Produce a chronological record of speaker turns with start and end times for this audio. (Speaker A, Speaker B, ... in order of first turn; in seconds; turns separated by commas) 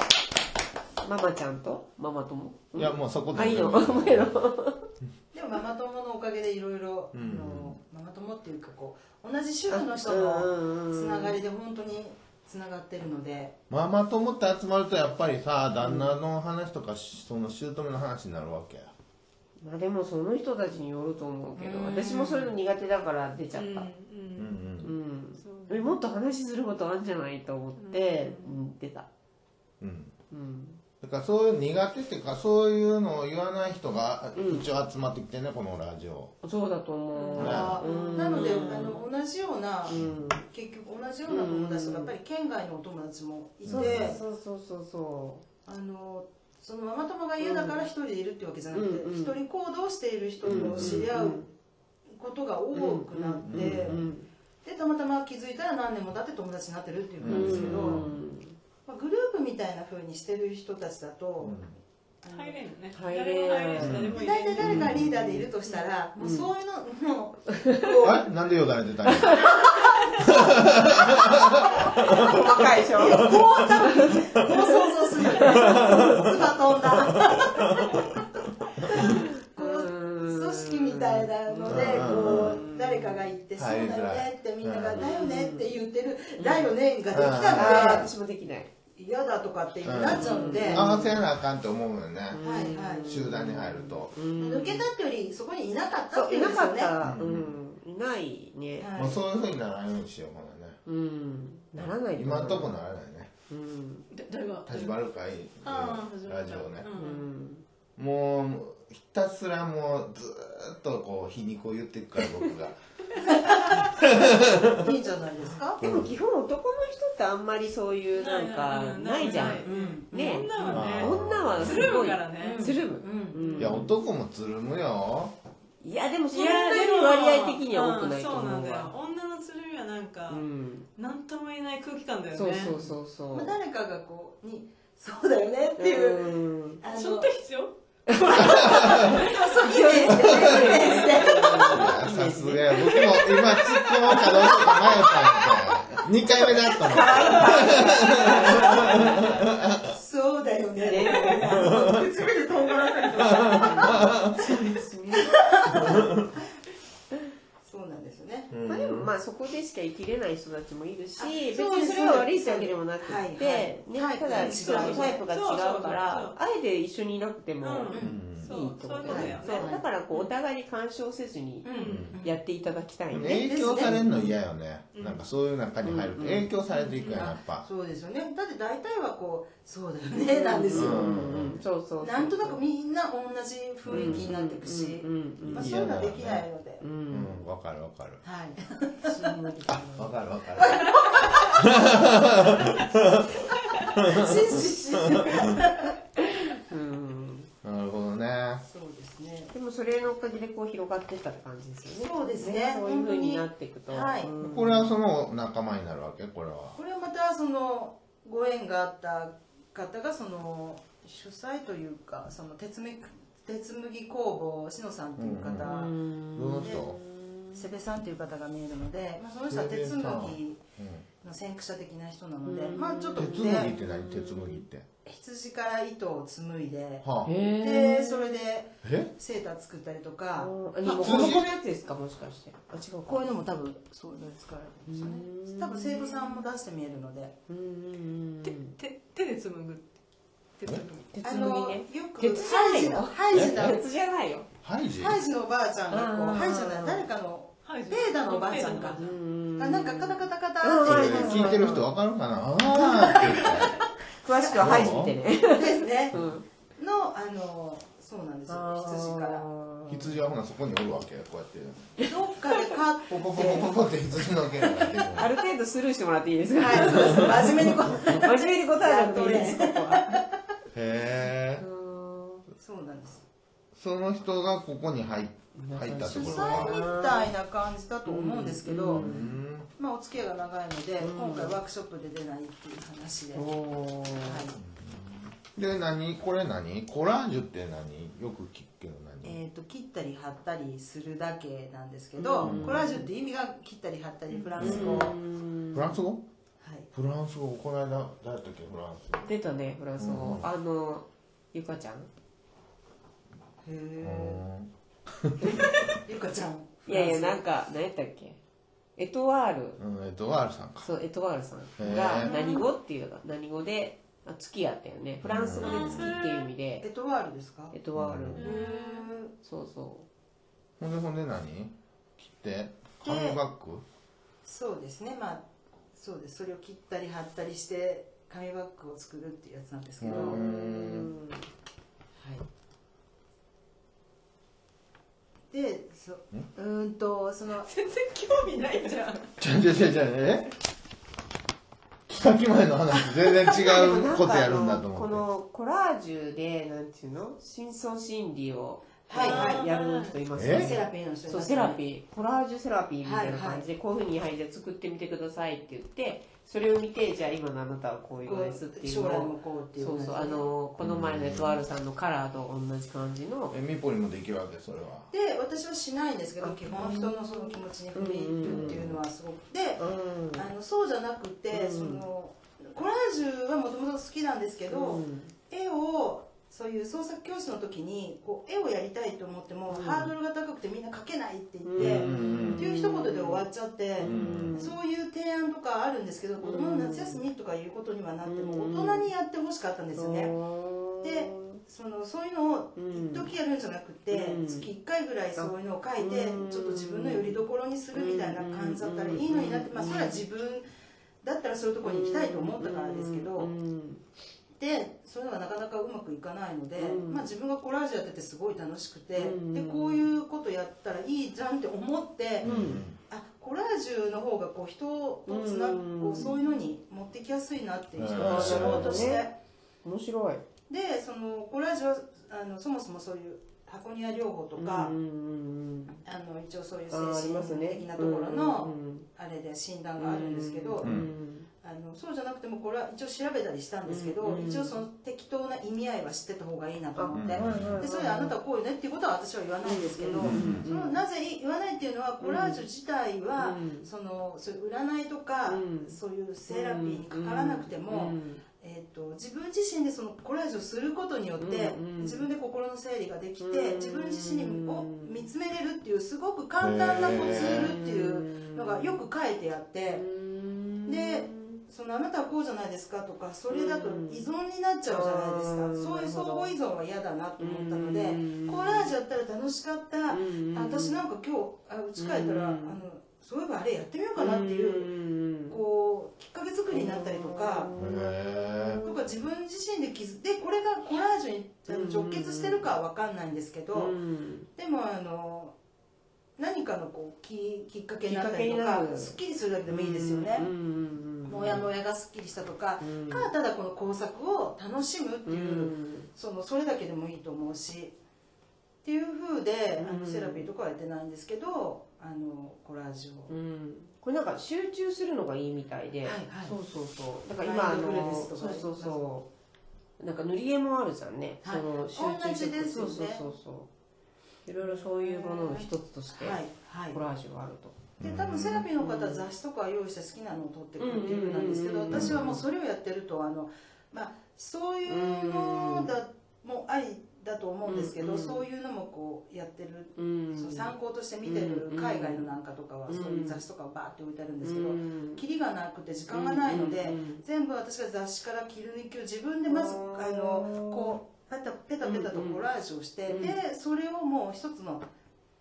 Speaker A: 1.0-4.8, Speaker B: 2.8-4.4, Speaker C: 5.3-13.5, Speaker B: 7.1-7.8, Speaker A: 9.7-11.4, Speaker B: 13.7-18.9, Speaker A: 15.8-16.2, Speaker A: 19.6-23.9, Speaker C: 21.6-22.6, Speaker D: 23.5-24.8, Speaker B: 24.4-24.9, Speaker A: 24.8-29.1, Speaker D: 25.4-26.0, Speaker D: 27.8-28.6, Speaker B: 29.8-30.1, Speaker A: 30.3-30.8, Speaker B: 31.0-36.3, Speaker A: 34.4-34.7, Speaker A: 36.4-39.0, Speaker D: 37.1-38.9, Speaker C: 37.4-44.2, Speaker B: 37.4-37.8, Speaker A: 39.9-40.4, Speaker B: 39.9-40.2, Speaker A: 41.3-42.1, Speaker B: 43.6-44.2, Speaker A: 43.7-45.4, Speaker C: 45.7-51.4, Speaker A: 47.4-47.9, Speaker A: 48.7-49.4, Speaker A: 50.4-51.5, Speaker B: 50.5-51.1, Speaker C: 52.1-54.0, Speaker A: 52.7-54.3, Speaker B: 53.4-54.1, Speaker C: 54.6-58.0, Speaker B: 57.2-58.1, Speaker A: 57.3-58.6, Speaker C: 58.9-61.6, Speaker B: 61.4-61.7, Speaker C: 62.2-62.6, Speaker D: 62.3-64.8, Speaker A: 62.9-64.1, Speaker B: 63.8-65.1, Speaker C: 64.1-68.5, Speaker A: 64.6-66.5, Speaker B: 68.0-69.6, Speaker A: 69.1-74.1, Speaker B: 70.2-72.0, Speaker C: 72.9-77.8, Speaker A: 75.3-76.5, Speaker B: 75.3-76.9, Speaker B: 77.6-77.9, Speaker C: 78.9-88.1, Speaker A: 79.0-83.3, Speaker B: 81.7-82.6, Speaker B: 83.6-85.0, Speaker A: 85.0-85.7, Speaker A: 86.4-86.7, Speaker B: 87.1-88.1, Speaker A: 87.5-88.7, Speaker C: 89.0-90.9, Speaker B: 89.8-92.4, Speaker A: 90.1-91.2, Speaker A: 92.3-94.9, Speaker C: 92.4-93.2, Speaker B: 93.0-94.2, Speaker C: 94.4-96.9, Speaker A: 96.1-98.9, Speaker B: 97.0-97.5, Speaker C: 98.8-99.2, Speaker B: 99.0-100.8, Speaker A: 100.9-102.8, Speaker B: 101.8-103.3, Speaker A: 103.5-104.1, Speaker D: 104.1-105.0, Speaker B: 104.7-106.9, Speaker D: 105.6-107.2, Speaker A: 107.0-107.6, Speaker B: 108.0-112.8, Speaker C: 113.2-113.9, Speaker B: 113.8-114.7, Speaker C: 114.7-115.8, Speaker B: 115.8-116.1, Speaker A: 115.8-124.0, Speaker D: 118.1-122.7, Speaker C: 119.2-120.8, Speaker B: 120.7-121.9, Speaker C: 122.4-123.6, Speaker B: 123.6-125.3, Speaker A: 125.8-128.9, Speaker D: 126.3-130.4, Speaker A: 130.3-130.9, Speaker D: 131.0-132.8, Speaker A: 132.3-133.5, Speaker C: 132.8-137.3, Speaker A: 135.8-136.8, Speaker D: 136.9-139.5, Speaker A: 138.3-139.1, Speaker C: 138.4-141.8, Speaker A: 139.7-143.0, Speaker D: 140.8-141.2, Speaker B: 141.7-149.7, Speaker D: 143.2-144.8, Speaker A: 146.3-149.5, Speaker D: 147.0-147.9, Speaker C: 148.5-149.0, Speaker C: 149.7-156.1, Speaker A: 150.8-151.8, Speaker B: 151.4-152.1, Speaker B: 153.2-154.4, Speaker A: 153.3-156.0, Speaker C: 157.6-158.5, Speaker B: 158.5-159.1, Speaker A: 158.7-174.4, Speaker C: 161.2-165.2, Speaker D: 164.3-166.4, Speaker D: 167.6-170.3, Speaker C: 167.9-168.2, Speaker B: 168.0-169.3, Speaker C: 169.1-169.8, Speaker C: 171.6-172.4, Speaker D: 171.7-172.1, Speaker B: 171.9-172.2, Speaker B: 173.1-177.7, Speaker C: 173.2-174.0, Speaker D: 174.9-175.2, Speaker A: 175.8-176.5, Speaker D: 176.7-177.3, Speaker C: 177.2-181.1, Speaker A: 180.2-182.6, Speaker B: 180.7-181.6, Speaker C: 182.0-186.8, Speaker B: 183.9-184.3, Speaker A: 183.9-185.9, Speaker B: 185.4-186.4, Speaker A: 186.8-187.4, Speaker B: 187.1-188.2, Speaker C: 188.2-189.4, Speaker A: 189.1-190.2, Speaker B: 189.7-190.9, Speaker C: 190.6-191.6, Speaker B: 191.6-193.3, Speaker B: 193.9-194.7, Speaker C: 194.0-195.9, Speaker A: 196.5-197.5, Speaker B: 197.6-198.6, Speaker C: 198.7-199.5, Speaker A: 199.5-204.9, Speaker C: 202.0-204.3, Speaker B: 204.4-206.8, Speaker C: 206.8-215.9, Speaker B: 215.2-215.8, Speaker A: 215.7-217.7, Speaker B: 216.3-217.0, Speaker C: 217.5-220.6, Speaker B: 219.5-221.1, Speaker C: 221.2-223.7, Speaker A: 222.4-224.7, Speaker B: 223.2-224.9, Speaker C: 225.1-227.1, Speaker B: 227.0-227.3, Speaker A: 227.2-228.3, Speaker C: 227.6-231.5, Speaker B: 228.8-229.1, Speaker A: 230.4-233.3, Speaker B: 230.9-231.5, Speaker C: 233.1-237.3, Speaker A: 234.9-236.4, Speaker A: 237.5-238.7, Speaker D: 238.4-239.9, Speaker D: 240.6-241.1, Speaker A: 241.1-244.5, Speaker C: 241.2-243.8, Speaker B: 243.3-243.7, Speaker B: 244.6-245.2, Speaker C: 244.9-249.0, Speaker A: 245.9-247.1, Speaker D: 247.6-249.2, Speaker A: 248.9-251.9, Speaker C: 249.6-251.7, Speaker B: 250.8-253.8, Speaker C: 252.7-255.0, Speaker A: 254.2-256.4, Speaker B: 254.6-255.2, Speaker C: 255.5-256.1, Speaker C: 256.8-259.4, Speaker A: 258.5-260.2, Speaker B: 259.9-261.9, Speaker C: 262.1-263.9, Speaker B: 263.1-265.3, Speaker C: 264.5-265.1, Speaker A: 265.1-270.2, Speaker C: 266.5-270.3, Speaker B: 270.7-271.6, Speaker A: 271.6-272.5, Speaker C: 272.6-273.2, Speaker B: 273.8-276.8, Speaker A: 275.6-277.3, Speaker C: 276.1-279.1, Speaker A: 278.1-279.4, Speaker B: 278.9-279.7, Speaker C: 279.8-283.4, Speaker A: 281.0-281.6, Speaker A: 283.3-284.5, Speaker C: 284.2-284.6, Speaker B: 284.6-289.4, Speaker C: 289.2-295.1, Speaker A: 292.2-293.1, Speaker B: 292.4-292.8, Speaker A: 294.6-296.0, Speaker B: 294.6-295.1, Speaker B: 295.7-296.2, Speaker C: 296.6-296.9, Speaker B: 296.9-299.3, Speaker A: 299.3-302.1, Speaker B: 300.0-300.5, Speaker C: 303.6-304.4, Speaker B: 304.0-304.7, Speaker B: 305.2-305.9, Speaker A: 305.4-305.7, Speaker C: 306.1-307.5, Speaker A: 306.9-308.4, Speaker A: 309.0-309.8, Speaker B: 309.8-310.9, Speaker A: 310.8-316.9, Speaker B: 311.8-312.3, Speaker D: 312.2-312.7, Speaker B: 315.2-316.1, Speaker D: 315.6-316.5, Speaker C: 316.8-317.8, Speaker A: 317.7-318.6, Speaker B: 317.9-318.4, Speaker D: 318.4-319.1, Speaker C: 318.4-319.3, Speaker A: 319.4-320.1, Speaker B: 320.8-323.8, Speaker C: 323.0-323.4, Speaker C: 324.4-325.4, Speaker C: 325.9-330.4, Speaker B: 330.0-331.1, Speaker A: 330.1-331.5, Speaker C: 332.2-332.4, Speaker C: 335.5-337.7, Speaker D: 337.5-339.3, Speaker B: 339.4-340.5, Speaker B: 342.1-345.3, Speaker A: 343.5-363.6, Speaker C: 349.1-349.6, Speaker D: 349.1-350.2, Speaker B: 350.4-350.8, Speaker C: 350.5-351.8, Speaker C: 353.0-353.7, Speaker C: 358.2-360.5, Speaker B: 360.8-361.6, Speaker B: 363.5-365.1, Speaker C: 365.1-390.3, Speaker A: 366.4-368.9, Speaker B: 368.4-369.0, Speaker A: 369.8-370.5, Speaker A: 371.5-372.1, Speaker A: 374.7-375.3, Speaker A: 379.7-380.1, Speaker A: 381.6-383.5, Speaker B: 381.8-382.8, Speaker A: 384.0-384.7, Speaker B: 384.0-384.7, Speaker A: 386.4-387.2, Speaker A: 388.2-389.1, Speaker A: 389.9-391.6, Speaker C: 391.0-400.7, Speaker A: 392.8-393.3, Speaker A: 394.1-394.7, Speaker A: 395.4-397.4, Speaker A: 397.9-400.2, Speaker C: 401.2-403.5, Speaker A: 401.8-404.0, Speaker C: 404.6-419.3, Speaker A: 406.8-407.3, Speaker A: 409.2-410.1, Speaker B: 412.4-413.0, Speaker A: 412.4-412.8, Speaker A: 415.3-416.3, Speaker B: 418.0-419.1, Speaker A: 418.2-419.2, Speaker A: 419.8-420.4, Speaker C: 420.7-424.9, Speaker A: 424.6-426.0, Speaker C: 426.0-430.9, Speaker A: 426.9-429.1, Speaker A: 430.0-431.5, Speaker B: 430.8-431.1, Speaker C: 431.6-460.0, Speaker A: 433.9-434.8, Speaker A: 437.0-438.4, Speaker B: 437.1-437.9, Speaker A: 439.6-440.9, Speaker B: 440.2-440.6, Speaker A: 442.2-442.6, Speaker A: 443.4-443.9, Speaker A: 445.5-446.0, Speaker A: 446.5-448.4, Speaker A: 451.4-452.3, Speaker A: 453.4-455.2, Speaker B: 456.6-457.7, Speaker A: 457.0-459.0, Speaker A: 459.9-461.6, Speaker C: 460.9-474.9, Speaker A: 463.5-464.2, Speaker A: 464.9-466.5, Speaker A: 467.4-468.9, Speaker A: 470.1-471.0, Speaker A: 472.0-472.8, Speaker A: 474.2-475.6, Speaker C: 475.5-477.7, Speaker A: 476.7-478.9, Speaker B: 477.8-478.8, Speaker C: 478.8-483.9, Speaker A: 481.7-482.7, Speaker A: 483.7-484.5, Speaker C: 484.6-485.6, Speaker C: 486.4-490.5, Speaker A: 488.1-491.7, Speaker C: 491.2-498.0, Speaker A: 492.8-493.3, Speaker A: 495.3-496.1, Speaker C: 498.8-503.3, Speaker A: 499.8-500.5, Speaker A: 503.3-509.3, Speaker C: 506.0-506.5, Speaker C: 507.4-509.0, Speaker A: 510.0-513.7, Speaker C: 511.4-513.2, Speaker A: 514.5-517.8, Speaker C: 514.6-517.0, Speaker B: 518.0-518.6, Speaker C: 518.0-544.9, Speaker A: 518.8-519.3, Speaker A: 520.8-522.3, Speaker B: 521.9-522.4, Speaker A: 524.9-525.9, Speaker A: 527.6-528.4, Speaker A: 530.0-530.7, Speaker A: 531.2-532.3, Speaker A: 532.9-533.4, Speaker A: 534.4-535.2, Speaker A: 536.1-537.2, Speaker A: 539.5-541.0, Speaker A: 541.8-542.4, Speaker A: 543.1-543.4